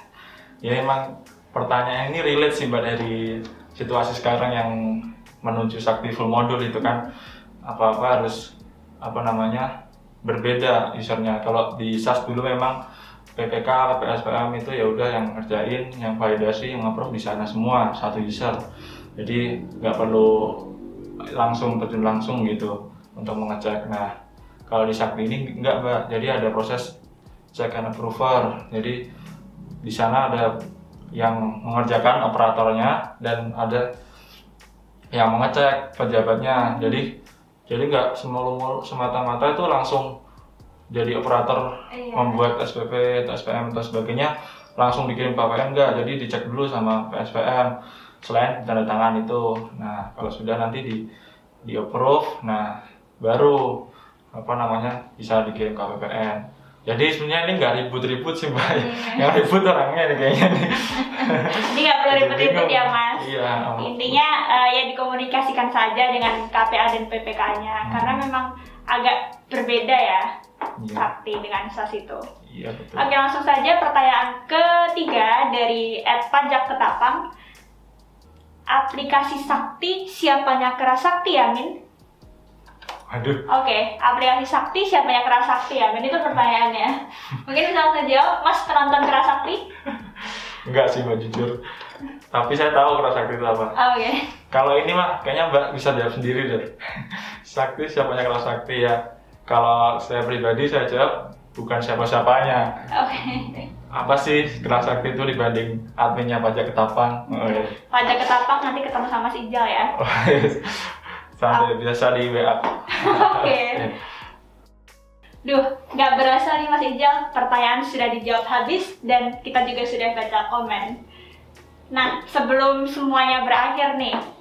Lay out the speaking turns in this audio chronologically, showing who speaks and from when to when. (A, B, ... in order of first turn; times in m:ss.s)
0:00.6-0:07.1 A
0:07.6-0:09.7 A
0:10.2-0:12.8 A
0:13.4-0:18.6 A
0:19.2-0:20.8 A
0:21.3-0:24.1 A
0:24.7-0:26.9 A
0:27.5-0:29.0 A
0:29.8-0:30.5 A
0:31.1-0:33.8 A
0:35.1-0:40.1 A
0:36.5-0:37.1 B
0:40.9-0:51.0 A
0:41.9-0:42.5 B
0:51.6-1:04.2 A
0:58.7-0:59.5 B
1:01.0-1:10.2 B
1:07.8-1:08.2 A
1:10.8-1:11.1 A
1:11.0-1:12.2 B
1:12.4-1:13.1 A
1:13.0-1:17.2 B
1:18.7-1:21.7 B
1:23.1-1:23.5 A
1:23.5-1:29.6 B
1:30.0-1:31.6 A
1:32.3-1:33.8 A
1:33.8-1:34.2 B
1:34.5-1:42.8 A
1:42.9-1:43.6 B
1:43.9-1:47.7 A
1:47.3-1:49.9 B
1:50.0-1:54.1 A
1:52.9-1:53.8 B
1:55.4-2:01.0 B
2:01.9-2:04.2 B